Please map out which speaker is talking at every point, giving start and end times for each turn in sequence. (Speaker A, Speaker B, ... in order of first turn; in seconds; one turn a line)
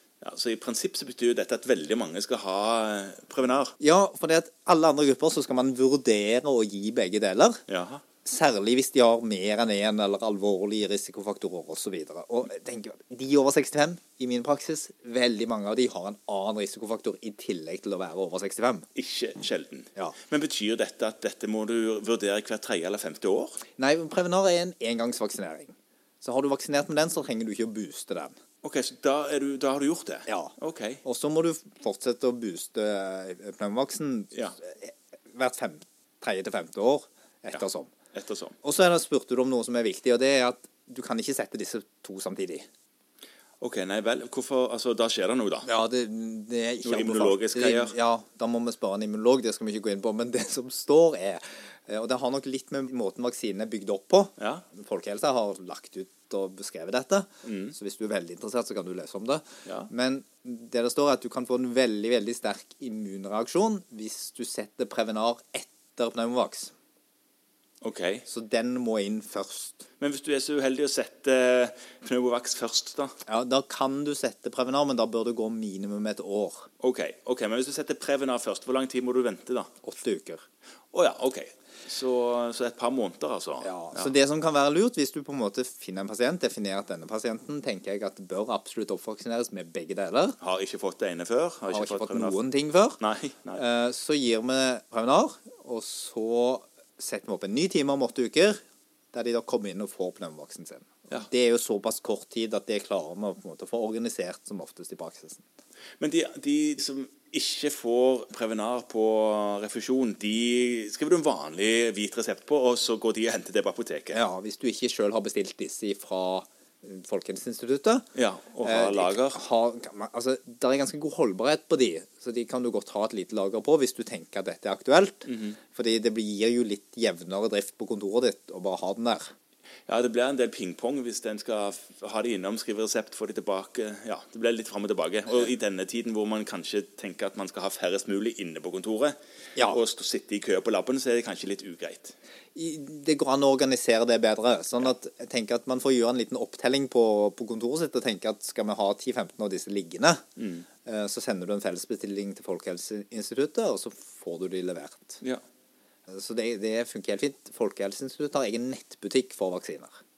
Speaker A: 0.2-3.8
Speaker B: 3.8-7.6
Speaker A: 7.7-8.0
Speaker B: 8.2-18.9
Speaker A: 18.9-23.6
Speaker B: 23.8-28.4
Speaker A: 28.6-31.0
Speaker B: 30.3-37.9
Speaker A: 38.1-38.6
Speaker B: 38.6-42.7
Speaker A: 43.6-45.7
Speaker B: 45.6-66.7
Speaker A: 46.8-48.0
Speaker A: 54.4-54.6
Speaker A: 57.4-57.8
Speaker A: 67.8-68.2
Speaker B: 68.3-69.8
Speaker A: 70.0-73.1
Speaker B: 73.3-76.7
Speaker A: 76.8-79.7
Speaker B: 79.8-80.4
Speaker A: 80.9-84.1
Speaker B: 83.6-90.4
Speaker A: 90.4-92.4
Speaker B: 91.7-93.0
Speaker A: 93.0-93.6
Speaker B: 93.6-98.6
Speaker B: 99.1-105.4
Speaker A: 106.0-114.2
Speaker B: 114.1-118.1
Speaker A: 118.2-119.4
Speaker B: 118.6-129.3
Speaker A: 125.3-125.6
Speaker A: 129.9-142.1
Speaker B: 139.6-139.8
Speaker B: 142.6-150.2
Speaker A: 150.4-150.7
Speaker B: 150.9-155.2
Speaker B: 156.1-159.9